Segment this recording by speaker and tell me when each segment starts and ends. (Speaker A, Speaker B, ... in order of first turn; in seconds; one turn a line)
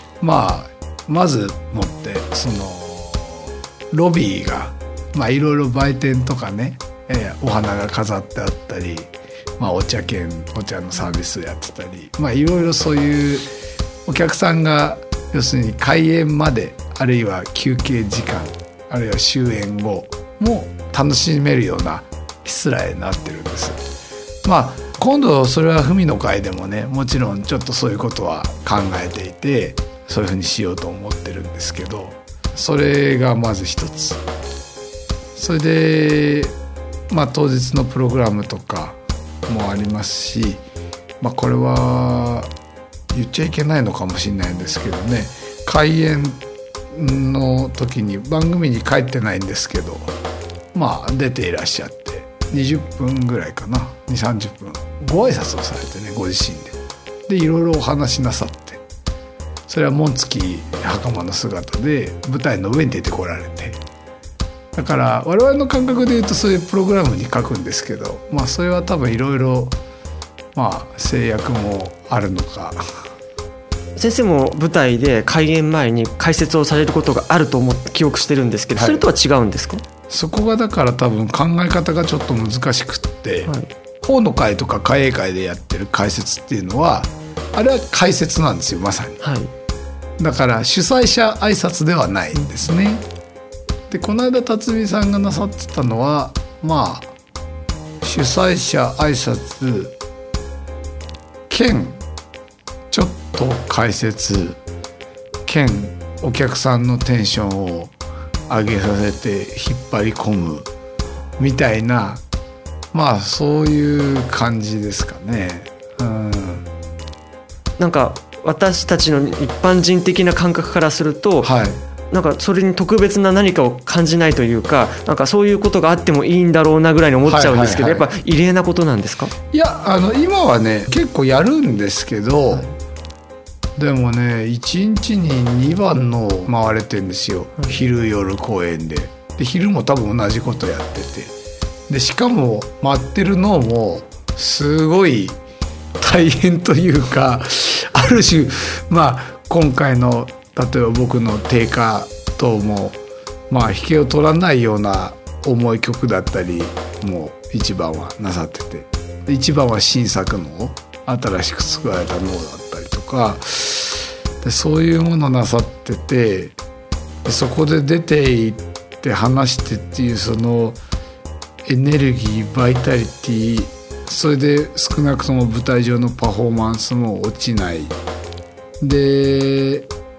Speaker A: 0.2-13.5
Speaker A: 14.1-23.8
Speaker A: 24.4-34.2
Speaker A: 35.4-36.5
Speaker A: 37.1-40.6
Speaker A: 41.2-42.5
Speaker A: 43.1-46.4
Speaker A: 46.9-50.1
Speaker A: 50.7-58.8
Speaker A: 59.7-63.8
Speaker A: 64.7-69.8
Speaker A: 70.5-72.8
Speaker B: 74.0-79.8
Speaker A: 78.8-79.0
Speaker A: 80.1-89.2
Speaker B: 89.2-89.5
Speaker A: 90.2-93.0
Speaker A: 93.9-97.1
Speaker A: 98.0-99.9
Speaker A: 101.5-102.0
Speaker A: 102.9-104.6
Speaker A: 105.5-107.9
Speaker A: 108.5-110.7
Speaker A: 111.4-112.2
Speaker A: 112.9-116.7
Speaker B: 117.8-121.5
Speaker A: 121.4-121.8
Speaker B: 122.1-129.3
Speaker A: 127.2-128.1
Speaker A: 129.5-132.7
Speaker A: 133.8-141.3
Speaker A: 141.9-145.4
Speaker A: 146.0-153.0
Speaker A: 153.5-166.6
Speaker A: 167.2-170.8
Speaker A: 171.6-177.9
Speaker A: 178.8-179.9